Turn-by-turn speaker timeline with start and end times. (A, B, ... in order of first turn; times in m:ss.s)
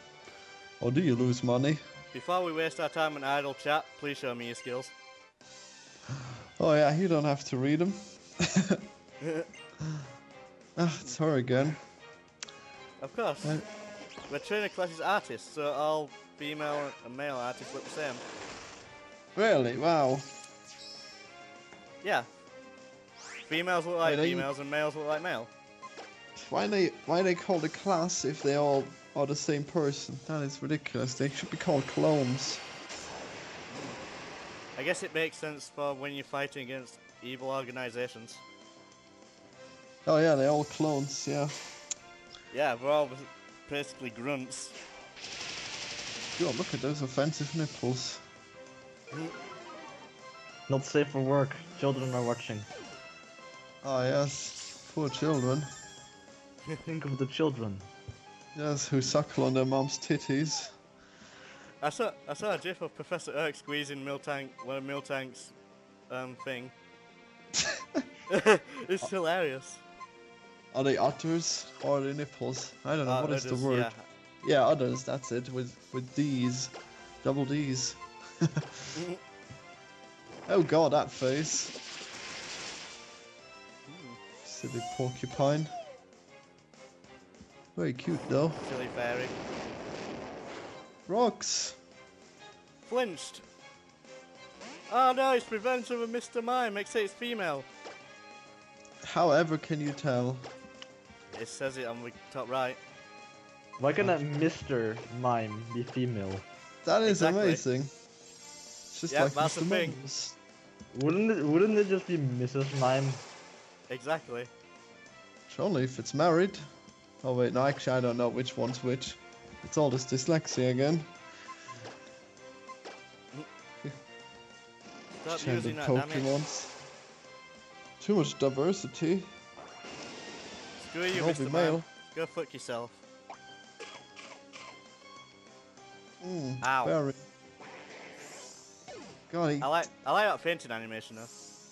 0:00.8-0:01.8 A
0:02.1-0:04.9 B
0:06.1-0:08.8 A
0:09.2-0:09.5 B
0:10.8-0:11.8 A
0:13.0-0:13.6 B
0:14.3-0:18.2 B
0:19.4-0:20.3 A
0:22.0-0:22.3 B
0:23.5-0:25.5 B
0:24.0-0:24.5 A
0:26.4-0:32.6 A
0:33.7-0:34.0 B
0:34.8-0:38.4 B
0:40.1-0:41.6 A
0:42.5-0:44.8 B
0:46.4-0:48.2 A
0:50.7-0:52.7 C
0:53.8-0:55.7 A
0:56.8-0:57.9 C
0:58.6-1:00.7 A
1:01.8-1:05.6 B
1:06.1-1:06.7 B
1:07.6-1:08.0 A
1:08.3-1:09.8 B
1:10.7-1:13.9 A
1:13.0-1:14.0 B
1:14.4-1:19.0 A
1:20.5-1:21.8 A
1:23.9-1:24.2 B
1:24.4-1:25.7 A
1:27.8-1:28.6 A
1:28.6-1:29.4 B
1:31.1-1:31.8 A
1:32.9-1:33.4 B
1:34.9-1:37.7 B
1:39.0-1:40.5 A
1:41.3-1:42.8 B
1:43.8-1:46.4 C
1:46.8-1:47.9 A
1:47.0-1:47.6 B
1:48.9-1:50.4 A
1:49.1-1:50.0 B
1:50.9-1:53.2 C
1:53.9-1:54.5 B
1:55.5-1:56.7 A
1:57.2-2:01.1 A
2:05.2-2:06.3 B
2:05.3-2:06.7 A
2:08.0-2:09.3 A
2:10.8-2:13.0 B
2:11.1-2:11.9 A
2:16.2-2:17.2 A
2:16.6-2:17.0 B
2:19.3-2:19.7 A
2:19.6-2:21.3 B